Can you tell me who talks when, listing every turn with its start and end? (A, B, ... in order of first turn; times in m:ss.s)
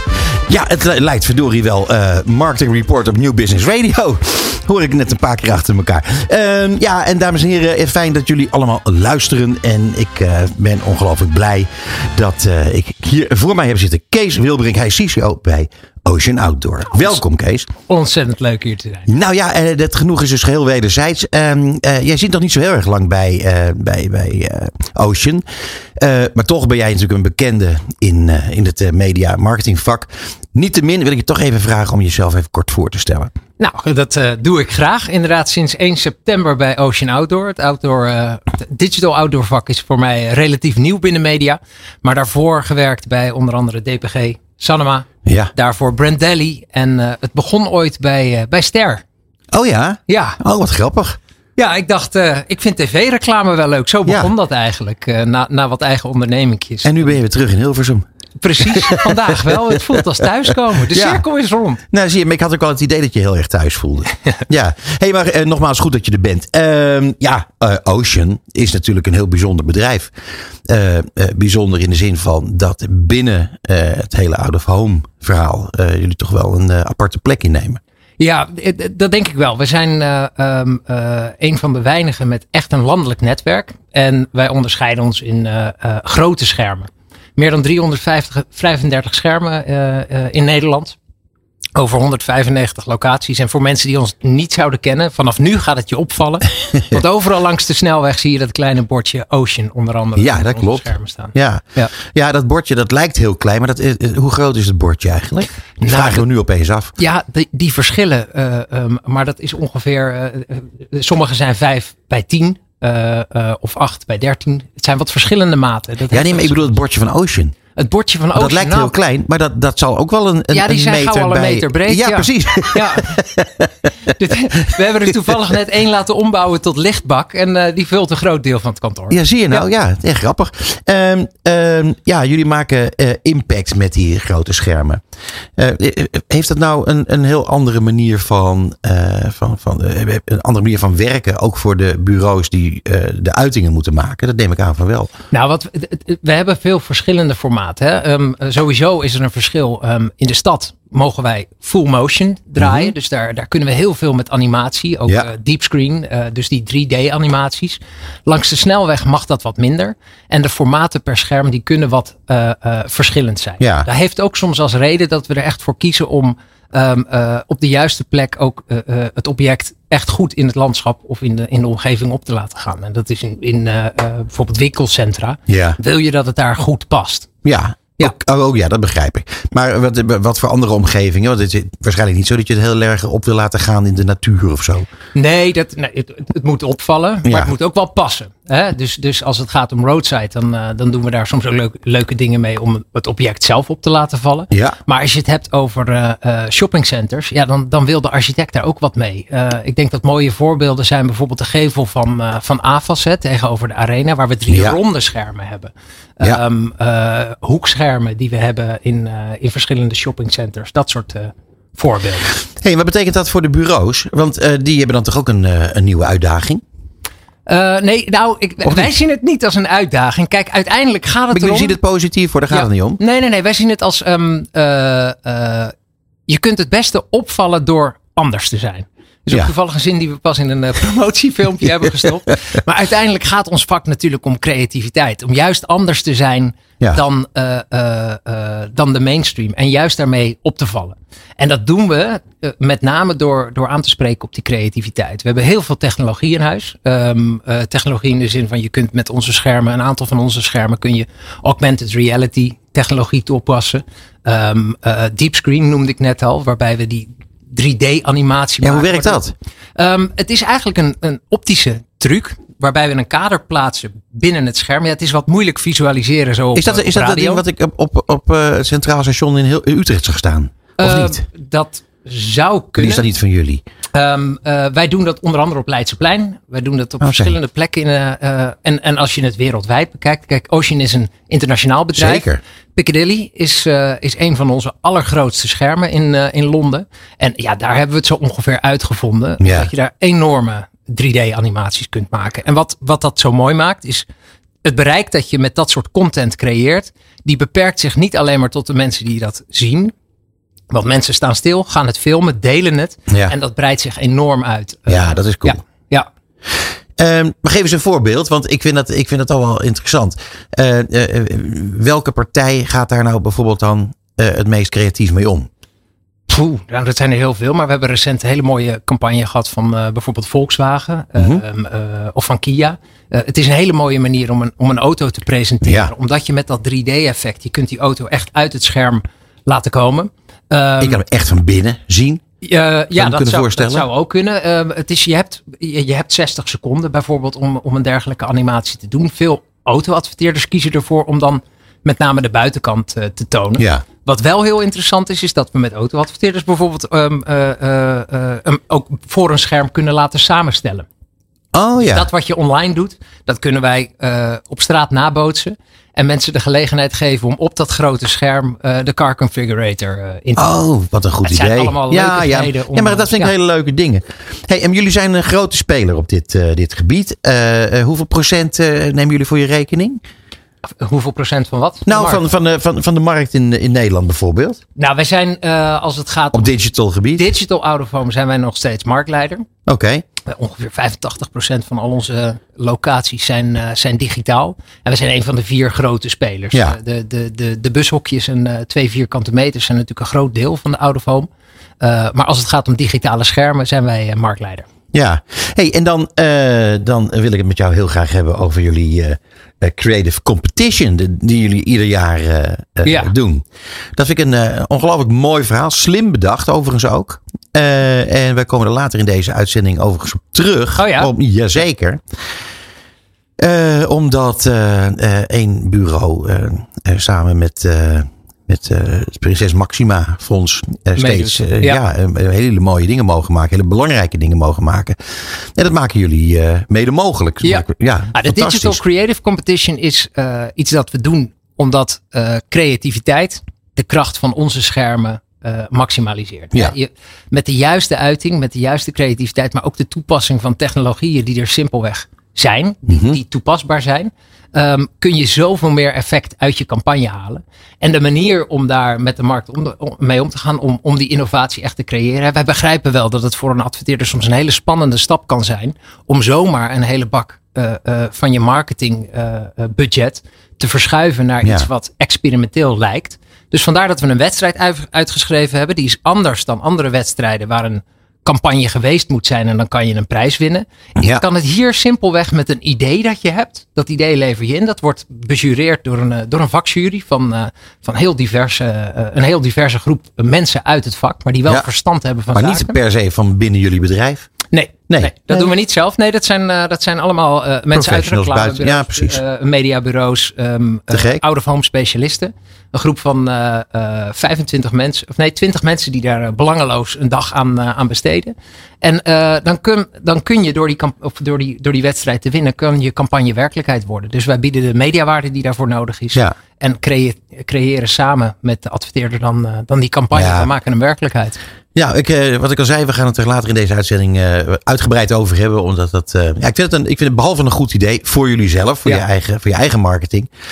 0:00.5-0:17.7 A
0:17.9-0:19.1 B
0:19.1-0:25.4 A
0:26.0-0:33.3 A
0:33.6-0:49.0 B
0:45.2-0:45.5 A
0:49.5-0:51.2 A
0:50.1-0:50.4 B
0:51.6-0:57.2 B
0:56.8-0:58.0 A
0:58.4-1:01.8 B
0:58.6-1:00.0 A
1:00.9-1:01.2 A
1:01.9-1:10.1 A
1:10.7-1:17.8 A
1:18.2-1:31.0 B
1:31.7-1:41.9 B
1:40.2-1:46.9 A
1:45.8-1:46.2 B
1:47.0-1:56.8 B
1:56.1-1:57.5 A
1:57.8-1:59.0 B
1:58.3-2:04.1 A
2:00.5-2:03.2 B
2:04.0-2:09.6 B
2:09.1-2:15.0 A
2:15.6-2:25.1 A
2:25.3-2:57.3 B
2:32.6-2:32.9 A
2:43.6-2:43.9 A
2:55.5-2:55.8 A
2:57.4-3:04.8 A
3:05.1-3:32.4 B
3:07.2-3:07.5 A
3:14.5-3:14.8 A
3:24.5-3:24.8 A
3:32.6-3:36.6 A
3:37.4-3:41.8 B
3:38.6-3:38.9 A
3:41.3-3:43.0 A
3:42.5-3:45.7 B
3:46.3-4:19.2 B
4:18.6-4:19.3 A
4:19.8-4:27.4 B
4:26.5-4:31.2 A
4:30.8-4:33.0 B
4:32.8-4:33.6 A
4:33.9-4:54.0 B
4:37.0-4:37.4 A
4:41.9-4:42.4 A
4:49.4-4:49.7 A
4:54.6-4:59.9 B
5:00.7-5:06.1 B
5:03.1-5:03.3 A
5:04.9-5:05.6 A
5:07.0-5:15.5 A
5:16.3-5:31.0 B
5:21.2-5:21.4 A
5:25.6-5:25.9 A
5:30.8-5:32.2 A
5:32.4-5:50.8 B
5:32.9-5:33.9 A
5:43.6-5:43.8 A
5:51.5-5:52.1 A
5:51.8-6:00.6 B
6:00.4-6:10.0 A
6:01.2-6:03.3 B
6:10.8-6:12.2 B
6:11.8-6:14.6 A
6:14.8-6:16.6 B
6:16.3-6:17.3 A
6:17.1-6:19.4 B
6:19.7-6:20.0 A
6:20.2-6:31.3 B
6:31.8-6:34.6 B
6:34.9-6:43.4 A
6:42.8-6:43.1 B
6:44.0-6:52.0 A
6:50.8-6:51.1 B
6:53.4-7:08.8 A
7:01.0-7:01.8 B
7:07.4-8:02.8 B
7:22.9-7:23.2 A
7:41.4-7:41.7 A
7:51.0-7:51.2 A
8:02.3-8:04.3 A
8:04.5-8:31.4 B
8:04.9-8:05.5 A
8:07.7-8:09.2 A
8:10.9-8:11.2 A
8:30.1-8:30.5 A
8:31.7-8:40.3 A